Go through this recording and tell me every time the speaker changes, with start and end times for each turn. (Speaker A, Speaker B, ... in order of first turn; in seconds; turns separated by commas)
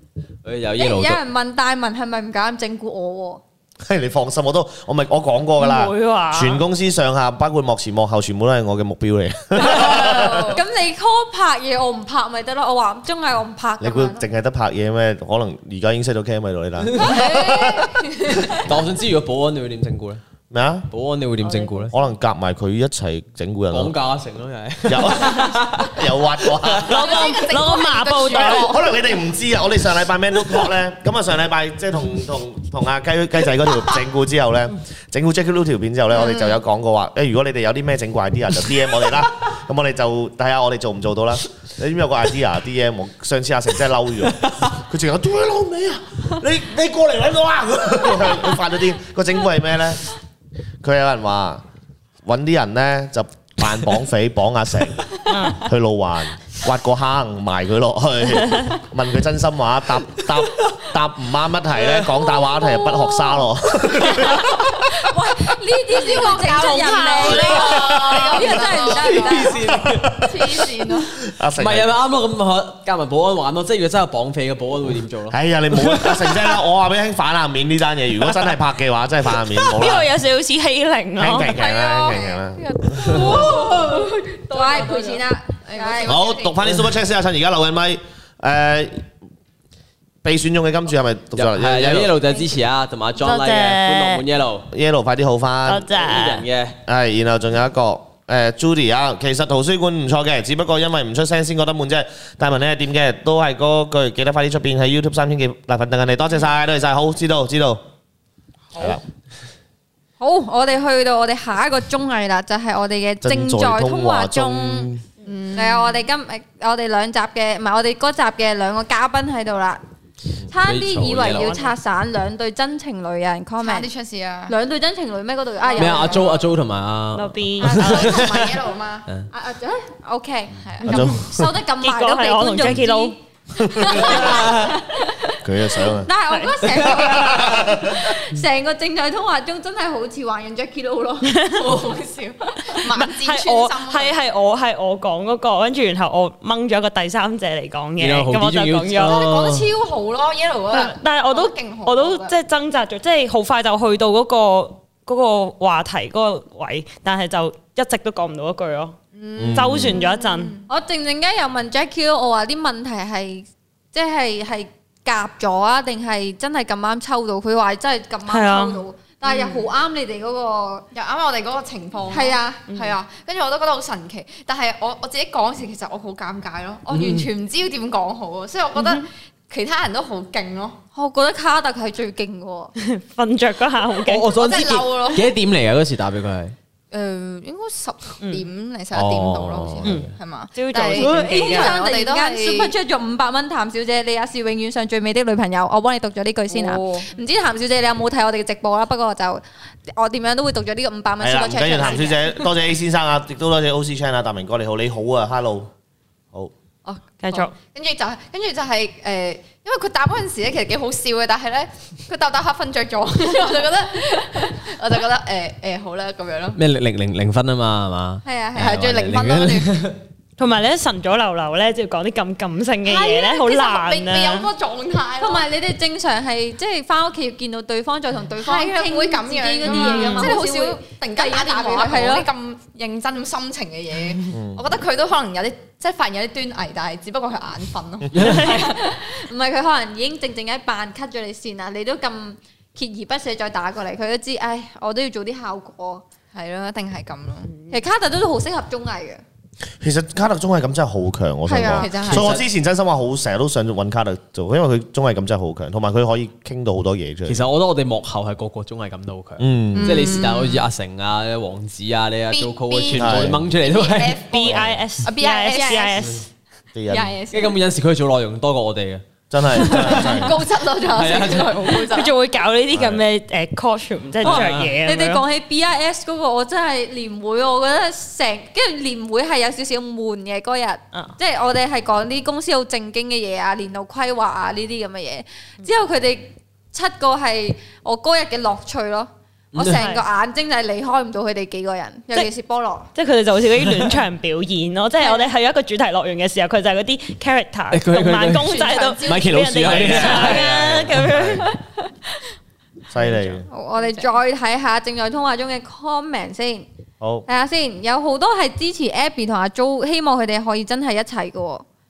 Speaker A: 0.4-1.2, Speaker B: 0.8-3.4, Speaker C: 3.9-10.6, Speaker D: 5.6-6.6, Speaker E: 9.7-10.6, Speaker B: 10.2-14.2, Speaker C: 13.8-18.1, Speaker A: 16.9-17.2, Speaker E: 17.0-18.7, Speaker A: 18.6-20.2, Speaker C: 20.5-20.9, Speaker A: 20.9-21.9, Speaker C: 21.9-23.9, Speaker A: 23.7-26.8, Speaker C: 24.9-27.4, Speaker D: 26.7-28.8, Speaker E: 26.9-28.9, Speaker C: 28.3-50.1, Speaker C: 50.8-51.6, Speaker C: 52.2-64.7, Speaker D: 55.3-55.7, Speaker A: 61.8-62.1, Speaker E: 62.4-63.3, Speaker B: 64.8-69.6, Speaker E: 65.9-71.1, Speaker D: 66.6-68.4, Speaker A: 68.8-70.3, Speaker C: 69.6-70.5, Speaker C: 71.2-71.9, Speaker A: 71.6-76.6, Speaker C: 75.3-80.1, Speaker D: 79.7-81.6, Speaker C: 81.2-83.5, Speaker E: 81.5-86.6, Speaker B: 83.0-86.4, Speaker C: 86.1-89.1, Speaker C: 90.2-92.2, Speaker A: 91.4-94.7, Speaker D: 93.2-94.2, Speaker C: 94.7-95.9, Speaker D: 95.7-96.5, Speaker A: 96.0-96.8, Speaker C: 96.9-107.8, Speaker C: 108.8-109.0, Speaker B: 110.2-114.9, Speaker C: 113.2-115.0, Speaker E: 115.2-116.0, Speaker B: 115.5-119.8, Speaker B: 120.5-123.9, Speaker A: 120.6-121.6, Speaker D: 121.3-121.7, Speaker E: 123.6-124.5, Speaker B: 124.5-126.4, Speaker E: 125.6-126.5, Speaker A: 125.8-128.6, Speaker D: 127.2-128.2, Speaker E: 127.6-129.1, Speaker B: 129.3-141.4, Speaker E: 130.6-131.0, Speaker D: 130.8-131.2, Speaker C: 130.8-131.6, Speaker D: 131.7-133.2, Speaker C: 133.6-134.3, Speaker E: 133.9-134.6, Speaker C: 135.4-136.1, Speaker D: 136.3-137.1, Speaker C: 137.0-138.0, Speaker D: 141.2-141.9, Speaker E: 141.5-144.2, Speaker D: 142.8-149.2, Speaker A: 148.0-149.7, Speaker E: 149.0-152.3, Speaker D: 150.7-159.0, Speaker E: 159.1-160.7, Speaker C: 159.4-160.0, Speaker D: 159.5-160.6, Speaker B: 160.7-170.9, Speaker D: 168.3-168.8, Speaker E: 169.3-169.7, Speaker E: 170.9-180.8, Speaker B: 172.1-172.6, Speaker D: 172.7-172.9, Speaker A: 176.9-177.3, Speaker D: 178.8-179.1, Speaker B: 180.9-182.7, Speaker D: 182.8-184.4, Speaker A: 184.0-186.6, Speaker E: 184.3-185.3, Speaker E: 186.9-192.7, Speaker A: 188.9-190.1, Speaker D: 189.8-191.8, Speaker B: 190.9-202.2, Speaker E: 196.5-197.1, Speaker C: 201.2-205.7, Speaker E: 206.9-216.6, Speaker D: 207.2-207.5, Speaker A: 216.6-220.0, Speaker B: 218.2-218.8, Speaker E: 218.6-219.9, Speaker D: 220.4-224.5, Speaker E: 222.8-225.5, Speaker B: 225.2-232.3, Speaker E: 228.4-238.8, Speaker D: 229.7-230.4, Speaker C: 234.3-234.6, Speaker D: 238.2-238.7, Speaker B: 238.4-246.0, Speaker E: 246.3-247.5, Speaker B: 247.7-249.2, Speaker C: 249.8-257.5, Speaker B: 251.5-251.9, Speaker E: 251.6-252.4, Speaker A: 252.1-252.4, Speaker A: 257.3-264.2, Speaker C: 259.4-260.2, Speaker E: 259.8-260.7, Speaker E: 262.3-266.2, Speaker C: 262.9-263.4, Speaker D: 264.2-266.3, Speaker C: 264.4-264.8, Speaker C: 266.8-267.1, Speaker E: 266.9-267.6, Speaker A: 267.3-271.8, Speaker C: 269.3-270.4, Speaker E: 269.6-272.1, Speaker D: 271.9-275.2, Speaker C: 272.7-273.0, Speaker A: 274.2-274.8, Speaker B: 274.8-292.9, Speaker A: 289.5-289.8, Speaker D: 289.7-290.1, Speaker D: 292.9-301.6, Speaker B: 295.0-295.3, Speaker A: 297.7-301.0, Speaker B: 298.5-299.1, Speaker E: 298.5-299.2, Speaker C: 299.7-301.5, Speaker C: 302.9-303.5, Speaker B: 303.5-306.7, Speaker C: 307.0-307.3, Speaker B: 307.3-311.6